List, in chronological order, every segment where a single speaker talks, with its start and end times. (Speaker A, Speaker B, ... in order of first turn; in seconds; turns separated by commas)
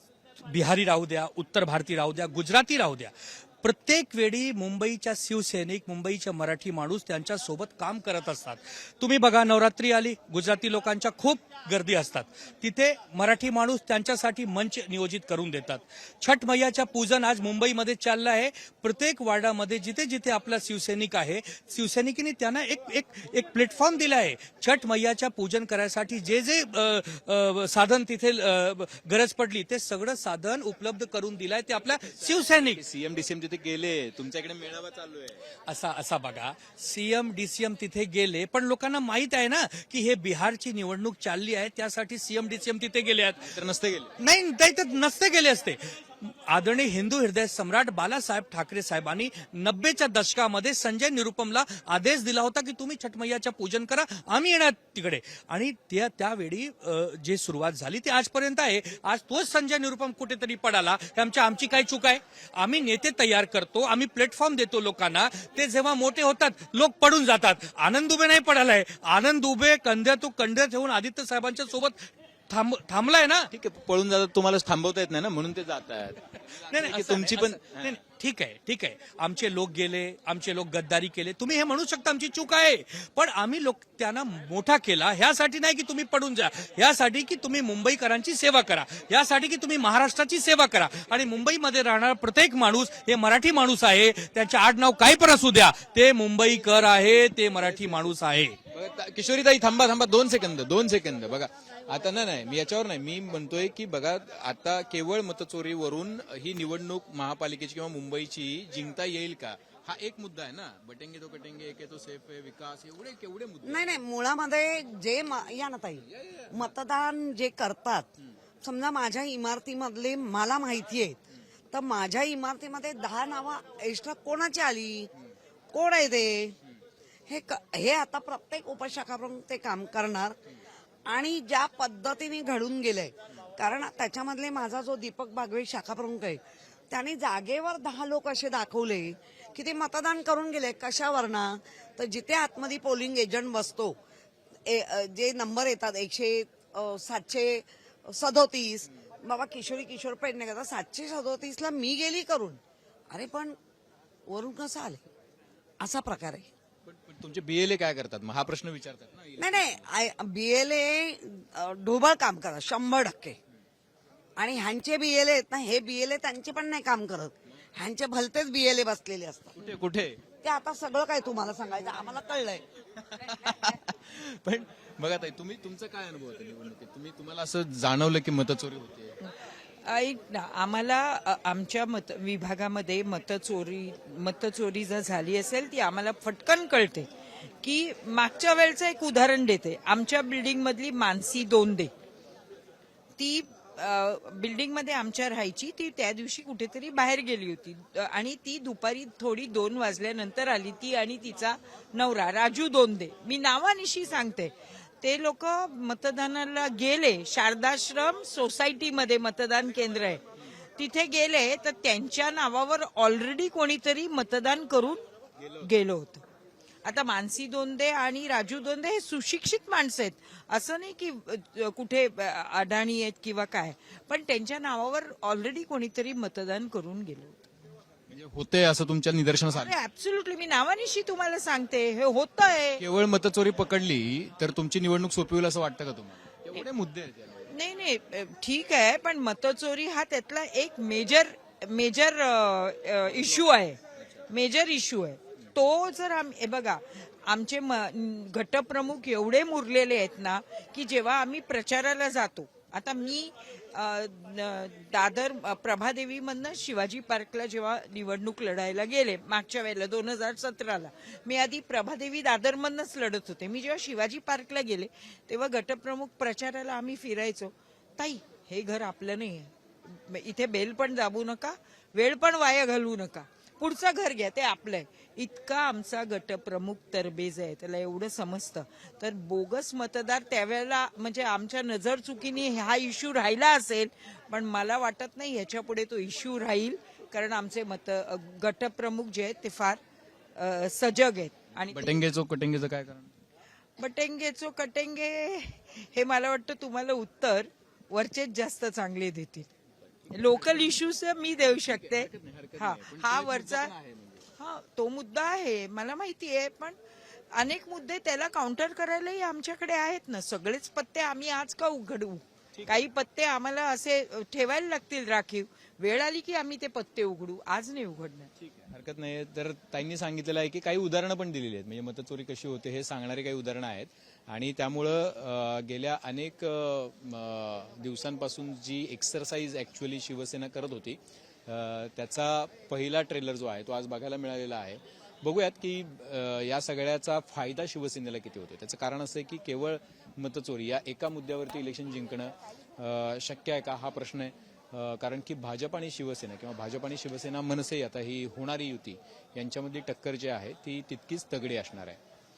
Speaker A: 0.4-32.8, Speaker B: 32.1-35.4, Speaker A: 35.7-43.5, Speaker B: 43.5-44.1, Speaker A: 44.2-73.5, Speaker B: 73.5-78.0, Speaker A: 76.7-98.6, Speaker B: 98.7-113.9, Speaker C: 113.6-118.1, Speaker C: 118.6-121.2, Speaker C: 121.7-125.1, Speaker C: 125.7-126.6, Speaker C: 127.3-130.4, Speaker C: 131.1-143.9, Speaker C: 144.7-152.6, Speaker C: 153.1-153.6, Speaker C: 154.3-155.1, Speaker C: 155.8-156.5, Speaker B: 156.9-159.8, Speaker C: 159.4-163.4, Speaker C: 164.4-169.5, Speaker B: 169.6-170.2, Speaker C: 170.4-172.6, Speaker B: 173.1-179.2, Speaker D: 179.8-187.1, Speaker D: 187.6-191.9, Speaker D: 193.2-210.2, Speaker D: 210.8-215.0, Speaker D: 215.6-216.2, Speaker D: 216.8-227.4, Speaker B: 228.1-229.7, Speaker D: 229.5-232.8, Speaker B: 232.8-237.5, Speaker D: 237.5-243.8, Speaker D: 244.3-289.8, Speaker D: 290.4-291.9, Speaker B: 291.7-293.1, Speaker D: 293.8-299.5, Speaker D: 300.1-303.7, Speaker B: 300.1-300.6, Speaker B: 301.7-304.2, Speaker D: 304.4-306.8, Speaker D: 307.3-318.3, Speaker B: 318.6-352.0